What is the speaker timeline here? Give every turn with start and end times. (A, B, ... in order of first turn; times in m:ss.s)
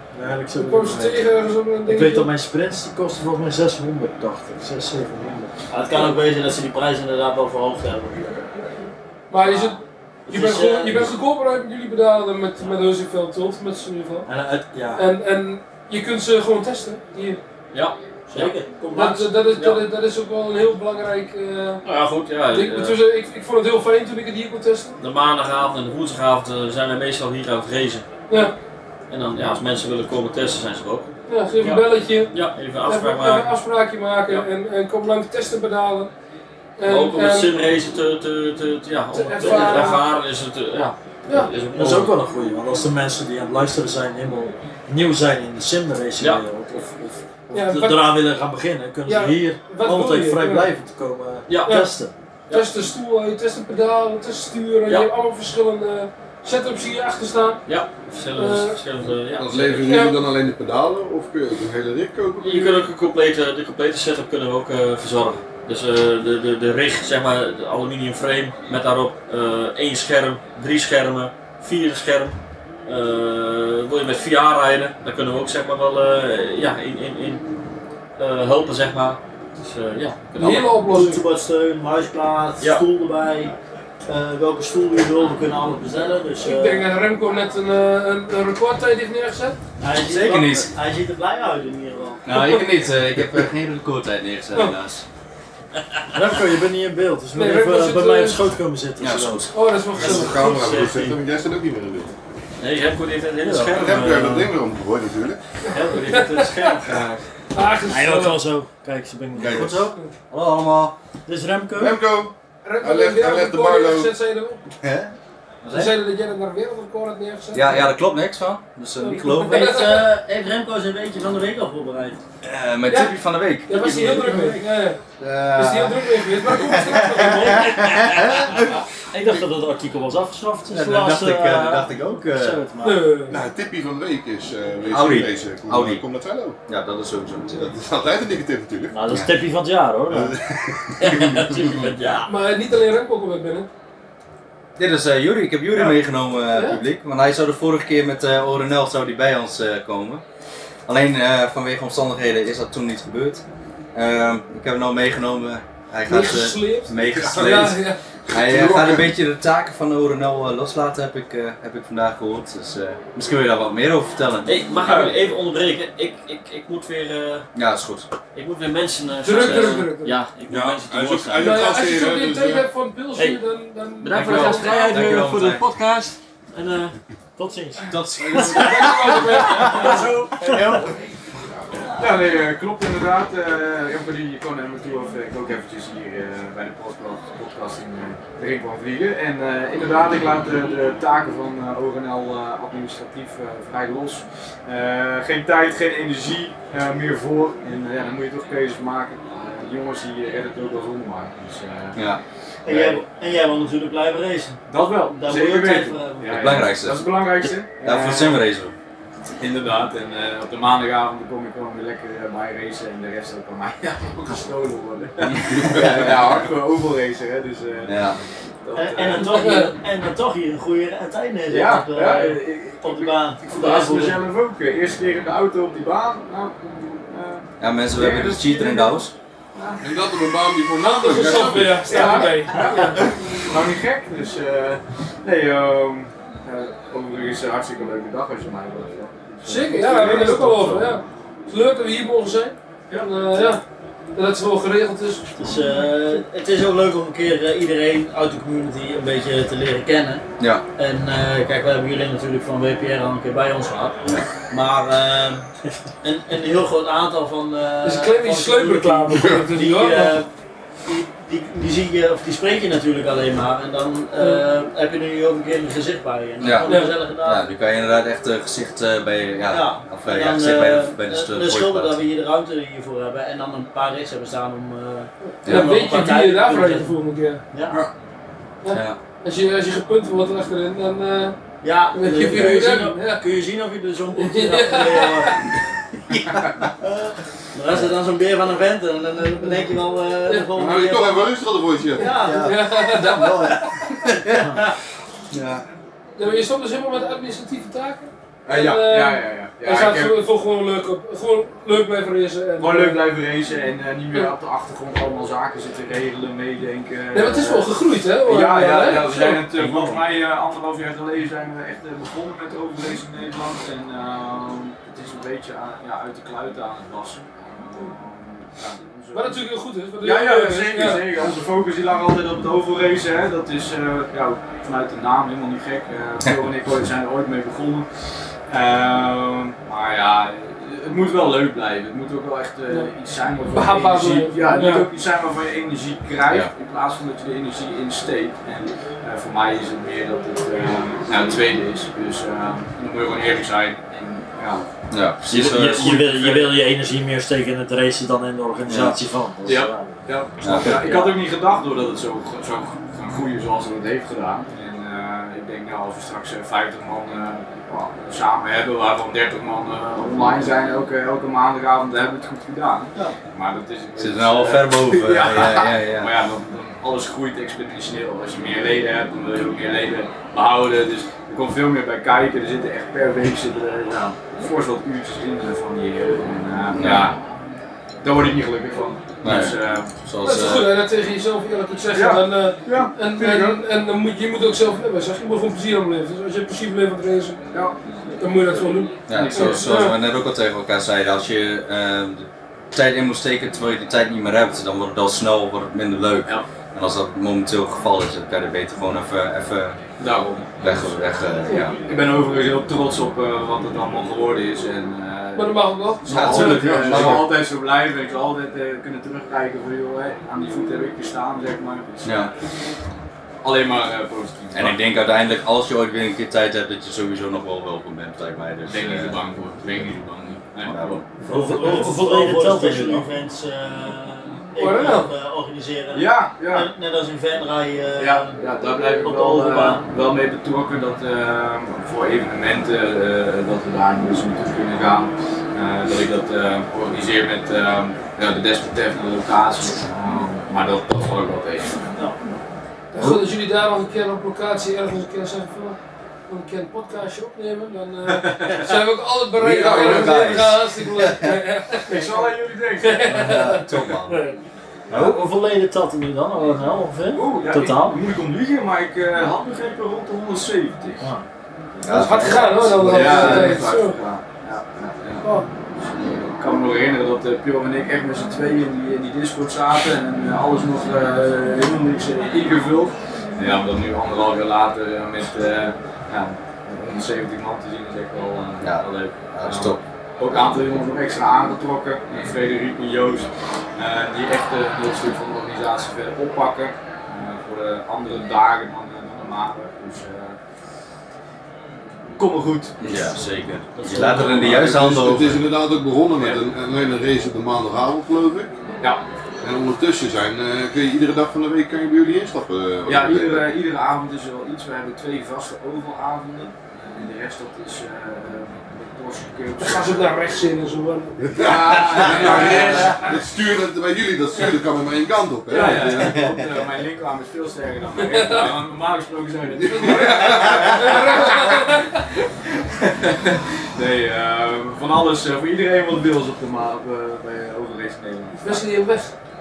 0:00.1-0:01.3 A
0:00.6-0:02.3 B
0:01.8-0:05.5 A
0:05.7-0:08.4 C
0:09.3-0:14.3 B
0:09.4-0:09.7 C
0:10.3-0:11.1 C
0:14.2-0:15.0 A
0:15.0-0:17.4 B
0:17.7-0:18.5 D
0:18.3-0:19.2 C
0:18.9-0:21.8 B
0:19.6-0:19.8 D
0:21.8-0:23.0 D
0:22.5-0:25.0 B
0:25.0-0:28.0 D
0:29.1-0:31.1 D
0:31.3-0:32.3 B
0:31.6-0:33.5 D
0:32.8-0:36.1 B
0:36.8-0:37.5 B
0:36.8-0:42.1 D
0:39.1-0:40.0 B
0:41.7-0:52.1 A
0:47.5-0:48.1 B
0:49.0-0:50.7 B
0:51.5-0:51.8 D
0:52.5-0:57.6 B
0:57.6-0:59.9 D
0:58.4-0:58.8 B
0:59.4-1:02.9 E
0:59.8-1:00.2 B
1:02.4-1:12.3 D
1:12.9-1:17.4 D
1:18.2-1:20.7 D
1:20.4-1:21.2 B
1:20.8-1:23.5 C
1:24.1-1:26.8 C
1:26.4-1:29.6 B
1:29.8-1:32.3 C
1:30.0-1:30.7 F
1:32.2-1:35.0 F
1:36.1-1:39.4 A
1:37.3-1:38.4 B
1:39.0-1:39.5 F
1:39.5-1:40.5 B
1:40.0-1:42.1 E
1:40.0-1:41.2 D
1:42.6-1:44.5 D
1:43.4-1:44.3 A
1:43.7-1:45.4 E
1:45.9-1:46.8 C
1:46.1-1:46.7 B
1:46.8-1:47.2 F
1:47.5-1:48.4 B
1:47.9-1:49.9 A
1:49.3-1:50.9 F
1:51.3-1:52.0 A
1:51.7-1:54.1 E
1:52.6-1:54.6 B
1:54.8-1:55.9 F
1:55.7-1:57.9 B
1:57.5-1:59.8 F
1:59.0-2:00.1 B
1:59.4-2:02.2 C
2:02.4-2:04.5 F
2:02.9-2:05.0 B
2:04.3-2:04.6 A
2:05.2-2:08.8 F
2:05.5-2:07.7 B
2:07.4-2:08.4 A
2:09.1-2:13.0 A
2:10.7-2:12.6 F
2:12.8-2:13.4 B
2:13.3-2:16.6 E
2:14.9-2:16.0 F
2:16.7-2:17.7 F
2:17.5-2:19.0 E
2:18.9-2:20.3 A
2:20.1-2:21.9 E
2:21.0-2:22.3 D
2:22.3-2:23.7 B
2:24.8-2:30.2 F
2:26.5-2:26.8 B
2:30.9-2:33.4 F
2:33.9-2:45.1 F
2:36.0-2:38.0 B
2:37.1-2:37.7 E
2:38.3-2:39.1 E
2:44.4-2:47.5 D
2:47.5-2:48.1 F
2:48.3-2:51.5 D
2:49.2-2:50.1 B
2:49.3-2:49.9 F
2:50.5-2:52.7 E
2:51.4-2:55.1 B
2:54.0-2:57.0 D
2:54.1-2:55.6 F
2:57.4-2:58.4 A
2:57.9-2:59.6 F
2:58.3-2:58.7 E
2:58.3-3:00.0 B
2:59.6-3:00.7 A
3:00.0-3:00.5 D
3:02.0-3:22.0 G
3:21.9-3:22.2 F
3:22.6-3:26.3 C
3:22.6-3:23.0 G
3:24.7-3:28.4 G
3:26.3-3:27.1 F
3:27.7-3:28.7 F
3:29.4-3:38.0 G
3:35.7-3:36.4 F
3:37.8-3:38.2 F
3:38.6-3:39.4 G
3:38.7-3:44.2 C
3:39.2-3:39.7 B
3:41.5-3:46.5 G
3:47.1-3:49.0 G
3:47.6-3:49.1 F
3:49.8-3:52.0 E
3:50.8-3:53.0 B
3:51.8-4:00.8 G
3:59.4-4:03.6 B
3:59.9-4:00.6 E
4:04.2-4:05.3 B
4:05.4-4:10.2 C
4:10.4-4:10.6 F
4:10.8-4:14.0 C
4:14.5-4:15.4 C
4:16.0-4:20.3 C
4:17.8-4:20.2 B
4:19.1-4:19.5 E
4:20.8-4:27.4 C
4:24.2-4:24.4 B
4:26.4-4:32.0 F
4:26.6-4:27.0 B
4:29.5-4:36.9 C
4:35.2-4:37.4 B
4:35.4-4:35.8 F
4:37.5-4:37.8 C
4:38.6-4:41.4 B
4:38.7-4:39.0 F
4:41.6-4:45.3 C
4:41.9-4:43.2 B
4:44.2-4:45.3 B
4:46.8-4:51.3 C
4:50.6-4:52.2 E
4:52.0-4:52.6 C
4:52.0-4:53.9 B
4:52.2-4:54.5 F
4:55.3-4:55.6 F
4:56.2-5:03.0 B
4:58.4-5:00.2 G
5:02.6-5:19.4 G
5:07.1-5:09.4 B
5:19.1-5:21.1 B
5:20.0-5:27.9 G
5:28.5-5:44.6 G
5:33.5-5:34.9 B
5:44.9-5:46.0 F
5:45.3-5:50.0 A
5:45.3-5:46.6 G
5:48.6-5:49.0 F
5:49.4-6:17.2 G
5:50.4-5:51.0 F
5:50.5-5:51.1 A
6:04.0-6:06.1 F
6:16.7-6:17.1 F
6:18.0-6:19.9 G
6:19.2-6:20.7 F
6:20.2-6:27.4 B
6:21.9-6:23.6 G
6:27.5-6:29.7 G
6:28.2-6:30.0 B
6:29.1-6:39.8 F
6:40.0-6:41.0 G
6:40.4-6:41.8 F
6:41.8-6:52.3 G
6:45.4-6:46.6 B
6:46.1-6:47.3 F
6:46.2-6:47.3 E
6:52.0-6:52.3 F
6:53.4-6:54.8 G
6:54.5-6:59.2 F
6:58.6-7:01.0 G
7:00.6-7:01.0 F
7:01.2-7:03.0 A
7:01.3-7:08.4 C
7:04.6-7:05.1 B
7:05.9-7:06.7 G
7:08.0-7:21.8 G
7:09.0-7:09.8 C
7:22.9-7:33.6 B
7:23.0-7:23.2 F
7:28.1-7:28.8 G
7:29.3-7:31.4 F
7:29.7-7:30.1 G
7:31.8-7:33.5 G
7:33.1-7:34.2 F
7:34.9-7:35.2 F
7:34.9-7:38.0 A
7:37.1-7:41.0 G
7:41.8-7:43.5 F
7:41.9-7:44.0 B
7:42.8-7:45.2 G
7:45.9-8:10.4 G
7:58.6-7:59.8 F
8:12.2-8:12.8 G
8:12.8-8:15.4 F
8:13.8-8:14.6 C
8:14.0-8:14.6 G
8:14.4-8:18.5 E
8:16.2-8:16.4 G
8:19.4-8:23.5 E
8:22.8-8:30.0 G
8:29.6-8:31.2 B
8:31.2-8:36.2 E
8:31.4-8:33.0 G
8:32.2-8:33.1 B
8:35.5-8:41.5 G
8:38.1-8:38.5 B
8:39.5-8:40.7 E
8:39.7-8:42.0 B
8:42.8-8:48.6 G
8:48.4-8:49.1 B